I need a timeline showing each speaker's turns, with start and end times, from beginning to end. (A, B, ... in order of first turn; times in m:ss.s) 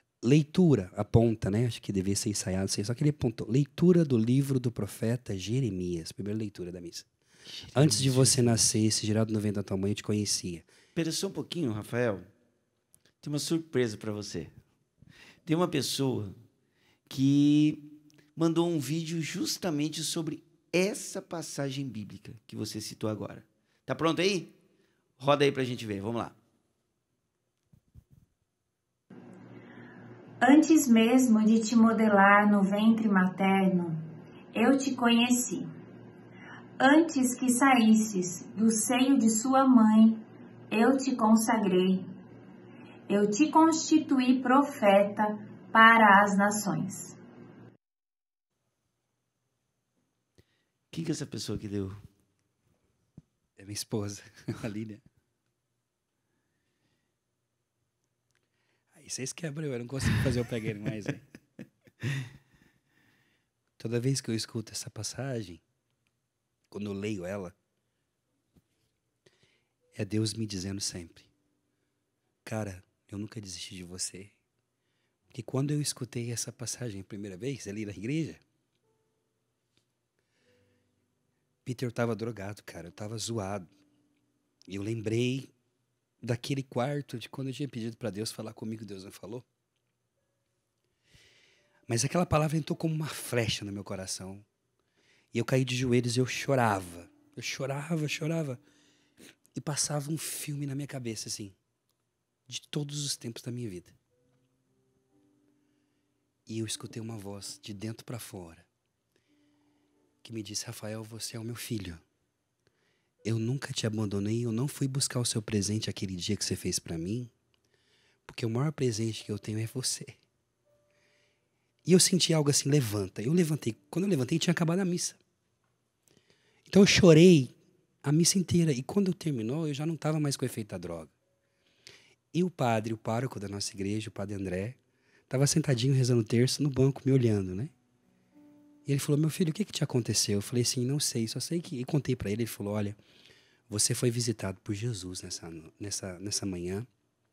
0:00.2-0:07.1 A
0:07.5-0:08.6 B
0:07.7-0:10.6 A
0:11.0-0:12.3 B
0:13.2-0:14.5 B
0:15.4-0:16.4 B
0:17.1-0:24.5 B
0:25.2-0:26.4 B
0:30.4-0:34.0 C
0:34.5-0:35.7 C
0:36.8-0:42.0 C
0:43.1-0:47.2 C
0:50.9-0:52.0 B
0:53.6-0:55.0 A
0:58.9-1:01.2 A
1:03.8-1:05.6 A
1:06.7-1:07.5 A
1:09.9-1:11.3 A
1:12.4-1:14.3 A
1:15.3-1:18.4 A
1:21.6-1:23.7 A
1:24.7-1:25.5 A
1:26.2-1:29.4 A
1:31.9-1:34.4 A
1:35.3-1:38.6 A
1:39.5-1:41.6 A
1:42.5-1:43.9 A
1:46.5-1:48.7 A
1:50.2-1:52.0 A
1:53.2-1:57.3 A
1:58.2-2:00.2 A
2:01.8-2:05.2 A
2:06.7-2:11.1 A
2:12.3-2:14.8 A
2:15.3-2:17.7 A
2:18.8-2:23.0 A
2:23.7-2:26.9 A